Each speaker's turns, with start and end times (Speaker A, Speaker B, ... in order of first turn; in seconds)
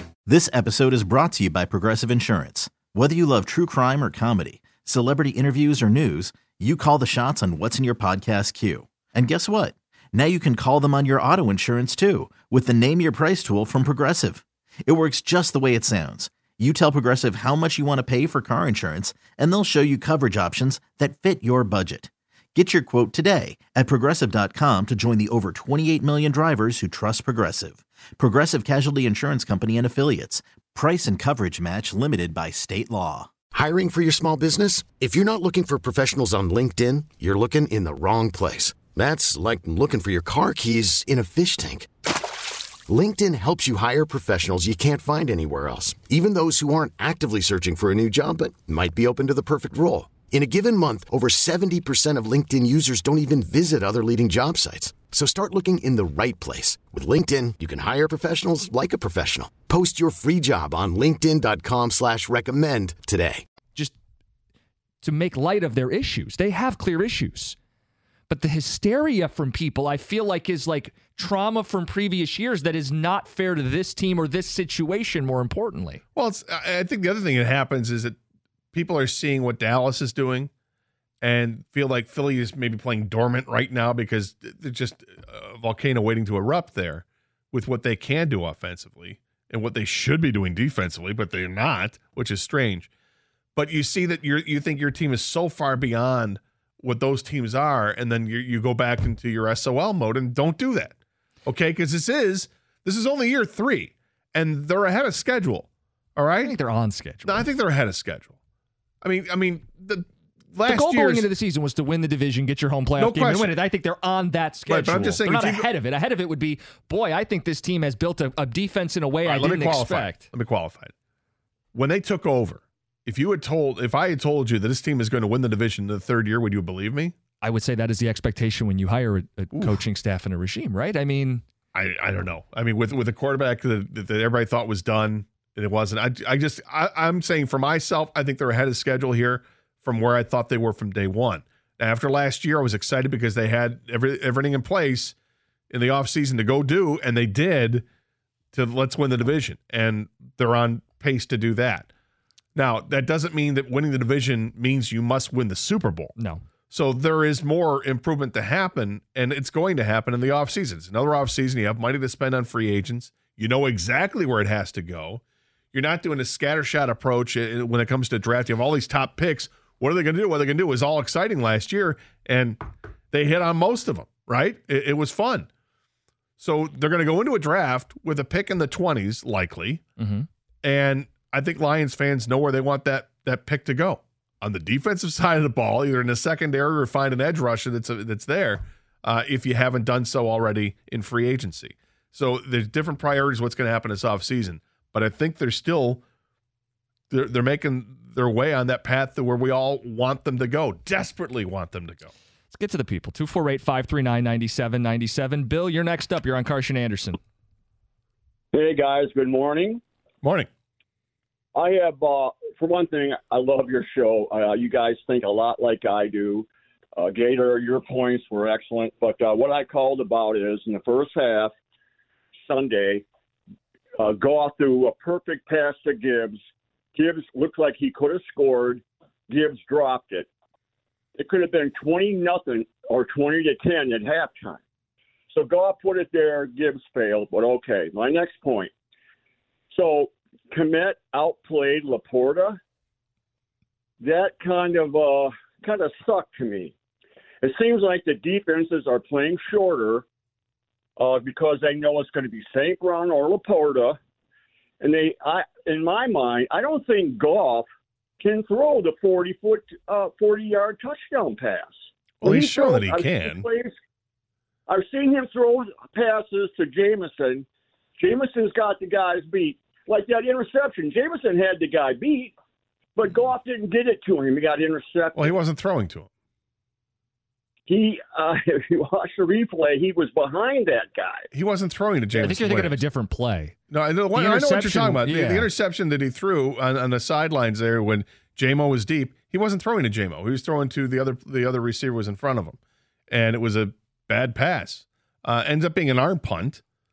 Speaker A: 0.3-33.3
Speaker B: 33.5-41.9, 42.9-63.5
Speaker C: 65.0-67.6, 68.3-76.0, 106.4-107.5, 110.7-120.3, 127.4-131.4, 156.2-156.4, 180.0-180.3, 202.5-207.2, 282.1-283.6, 284.1-285.5
Speaker D: 76.1-78.2, 78.7-80.5, 81.2-92.9, 93.6-101.0, 101.5-106.5, 107.3-108.4, 109.0-111.3, 113.0-113.5, 114.7-115.7, 119.2-120.9, 121.7-127.2, 131.7-145.2, 145.7-147.9, 148.5-151.9, 152.6-156.1, 156.7-165.2, 165.7-175.5, 176.4-179.8, 180.6-196.0, 197.1-202.1, 210.2-210.5, 262.2-263.5, 275.1-276.1, 281.3-282.8, 283.7-292.6, 293.1-296.6
Speaker E: 208.5-209.8, 211.5-221.5, 222.4-223.1, 224.0-226.4, 226.9-230.3, 231.2-234.6, 235.3-238.7, 239.7-242.6, 244.0-246.8, 247.4-250.1, 251.0-254.0, 254.8-257.7, 258.2-263.7, 264.7-267.5, 268.0-272.4, 273.0-275.4, 277.7-281.3